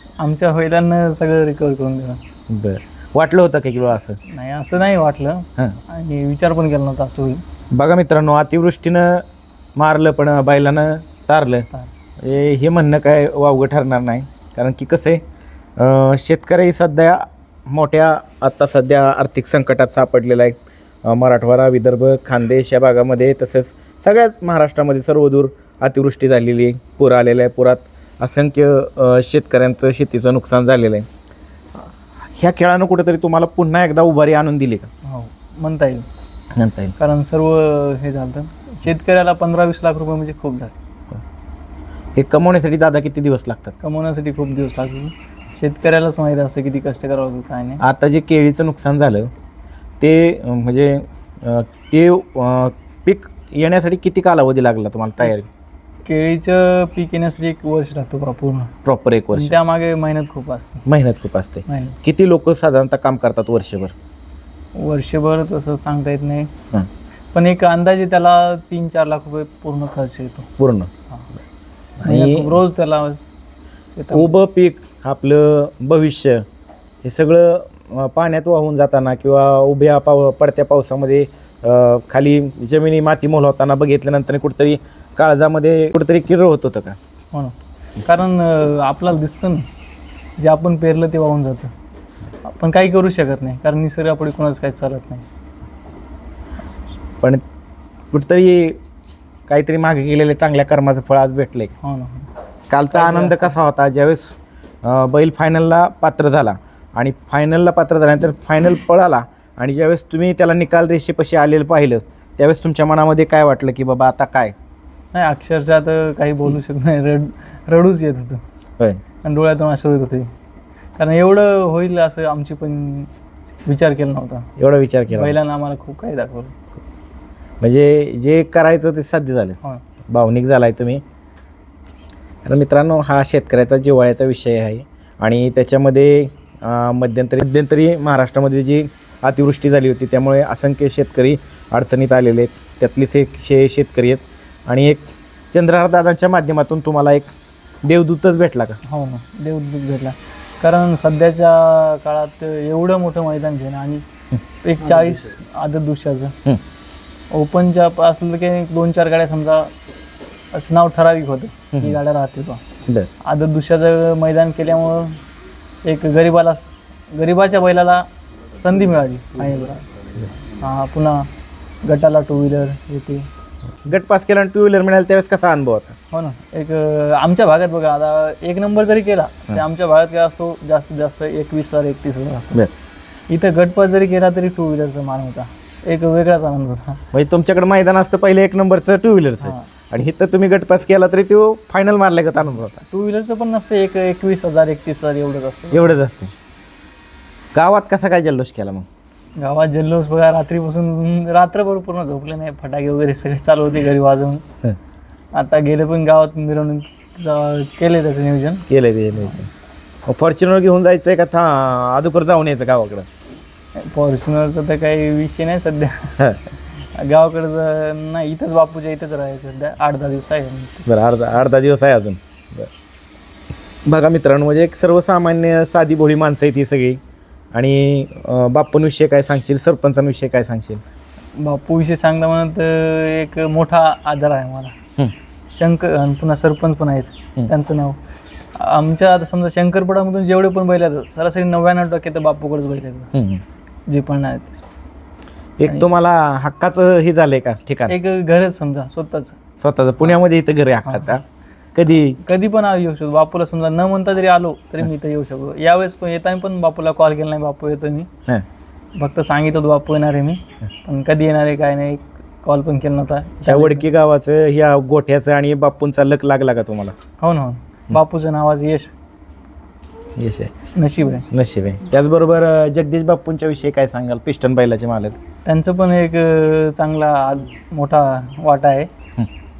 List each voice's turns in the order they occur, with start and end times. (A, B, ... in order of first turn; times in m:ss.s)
0:00.2-0:02.2 A
0:02.5-0:04.2 B
0:04.3-0:07.4 A
0:07.7-0:09.2 B
0:09.8-0:11.7 B
0:12.2-0:15.2 B
0:15.8-0:31.0 B
0:32.4-0:34.9 B
0:35.0-0:36.1 A
0:36.6-0:36.9 B
0:37.0-0:40.7 A
0:42.2-0:43.7 B
0:43.8-0:47.8 A
0:47.8-0:49.3 B
0:50.0-0:55.5 B
0:56.0-0:58.7 A
0:58.8-0:59.6 B
0:59.3-1:00.8 A
1:00.9-1:03.9 B
1:01.7-1:02.0 A
1:04.8-1:06.5 A
1:07.3-1:10.5 A
1:10.6-1:10.9 B
1:12.0-1:12.6 B
1:12.0-1:13.2 A
1:14.0-1:14.3 A
1:14.1-1:16.4 B
1:17.0-1:27.0 B
1:27.3-1:29.7 A
1:30.4-1:31.7 A
1:32.4-1:35.2 A
1:38.1-1:38.8 B
1:39.5-1:41.7 B
1:41.8-1:42.3 A
1:42.7-1:54.5 B
1:42.9-1:43.5 A
1:55.1-1:58.4 A
1:59.2-2:00.3 A
2:01.0-2:03.1 A
2:03.6-2:04.5 A
2:04.6-2:05.4 B
2:05.1-2:06.5 A
2:07.6-2:11.0 B
2:12.4-2:27.3 B
2:27.8-2:28.8 B
2:28.8-2:34.0 A
2:34.6-2:36.4 A
2:37.3-2:39.7 A
2:40.5-2:42.6 A
2:43.2-2:45.2 A
2:45.8-2:49.8 A
2:50.6-2:51.3 A
2:51.8-2:53.3 A
2:53.8-2:56.0 B
2:56.1-3:02.6 A
3:03.3-3:07.0 A
3:07.1-3:12.8 B
3:09.4-3:09.7 A
3:12.9-3:15.9 A
3:15.7-3:16.3 B
3:17.5-3:18.9 B
3:19.4-3:24.4 A
3:25.3-3:28.6 A
3:28.7-3:29.5 B
3:30.0-3:33.1 B
3:33.8-3:36.2 A
3:36.9-3:40.9 A
3:40.9-3:42.7 B
3:43.8-3:47.0 B
3:47.5-3:50.8 B
3:51.4-3:54.7 A
3:55.5-3:58.0 A
3:58.5-4:03.1 A
4:03.1-4:03.4 B
4:03.9-4:04.6 A
4:05.6-4:08.0 B
4:07.9-4:09.4 A
4:09.6-4:11.2 B
4:11.7-4:12.2 B
4:12.2-4:18.1 A
4:19.0-4:23.8 A
4:23.4-4:27.0 B
4:27.2-4:28.9 A
4:30.2-4:30.5 B
4:30.7-4:31.3 A
4:31.3-4:35.2 B
4:35.4-4:38.9 A